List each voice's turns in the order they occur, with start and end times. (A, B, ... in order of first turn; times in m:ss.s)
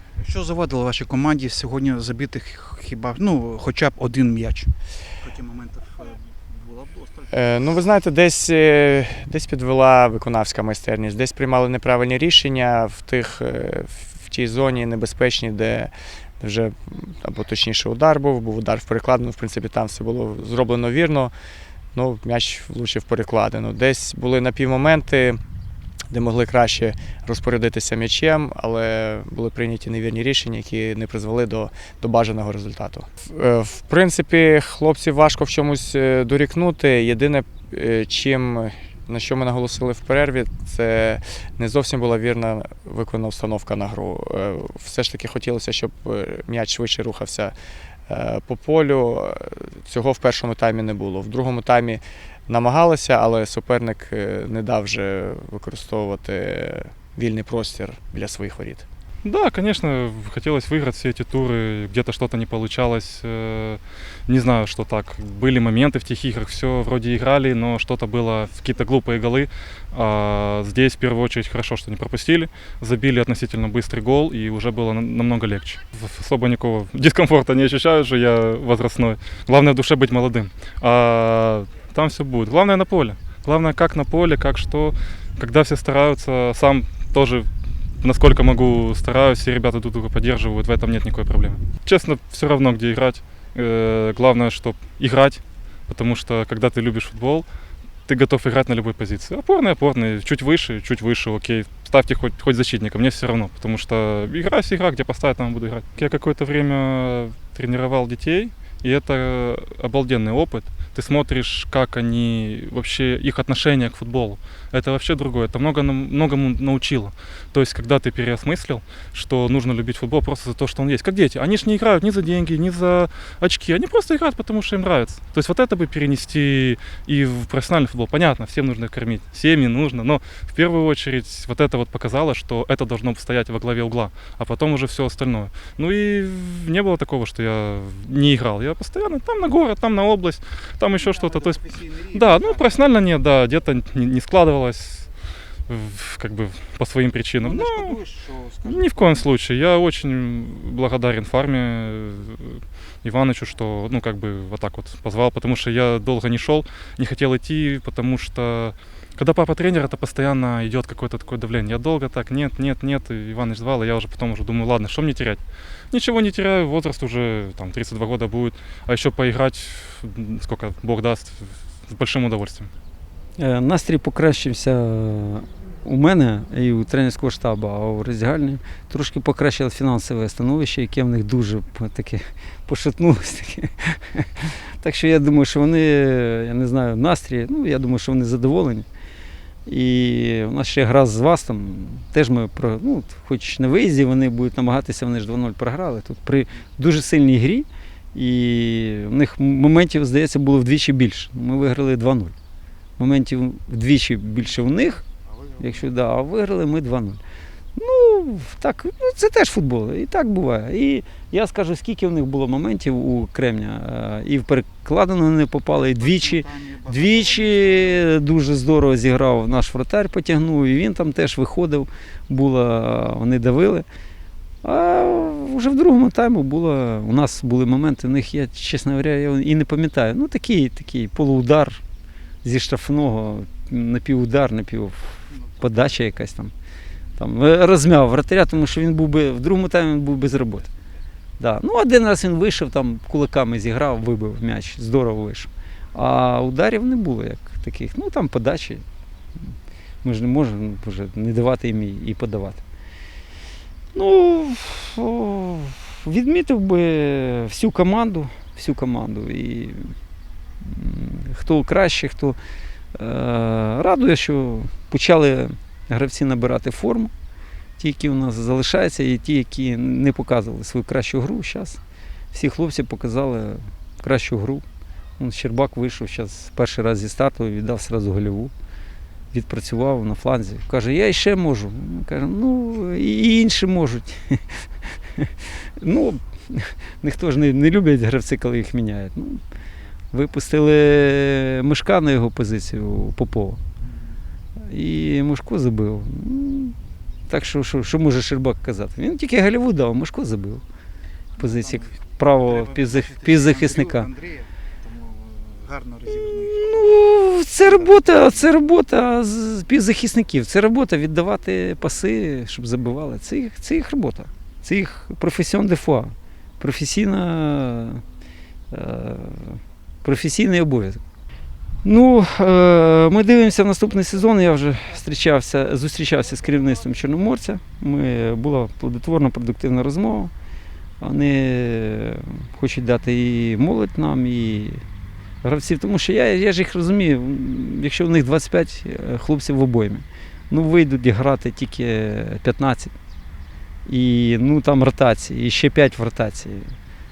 0:00.2-0:07.7 A
0:07.3-0:21.3 B
0:21.9-0:25.4 B
0:26.1-0:47.5 B
0:48.1-0:58.9 B
0:59.2-1:27.5 C
1:28.0-1:37.5 C
1:38.1-2:25.1 C
2:21.0-2:22.8 A
2:25.7-2:28.0 C
2:27.4-2:29.3 A
2:28.6-2:45.4 C
2:45.9-2:52.7 C
2:53.4-3:08.8 D
3:09.7-3:22.3 D
3:23.0-3:25.0 D
3:25.2-3:25.8 A
3:25.6-3:27.2 D
3:27.8-3:43.9 D
3:36.0-3:38.0 A
3:44.6-3:51.8 D
3:52.4-3:56.5 D
3:55.4-3:55.7 A
3:57.2-4:00.7 D
4:01.4-4:08.8 D
4:10.0-4:12.6 D
4:13.9-4:19.9 D
4:20.6-4:22.4 D
4:23.0-4:27.1 D
4:27.8-4:31.8 D
4:32.3-4:34.6 D
4:35.2-4:38.5 D
4:39.3-4:44.4 D
4:45.2-4:49.4 D
4:50.1-4:53.6 D
4:53.8-4:54.2 A
4:54.7-4:56.8 D
4:57.3-5:00.6 D
5:01.4-5:04.1 D
5:01.4-5:06.9 A
5:06.4-5:18.0 D
5:07.6-5:08.5 A
5:18.7-5:21.0 D
5:21.8-5:30.3 D
5:31.0-5:34.8 D
5:35.4-5:42.9 D
5:43.9-5:46.7 D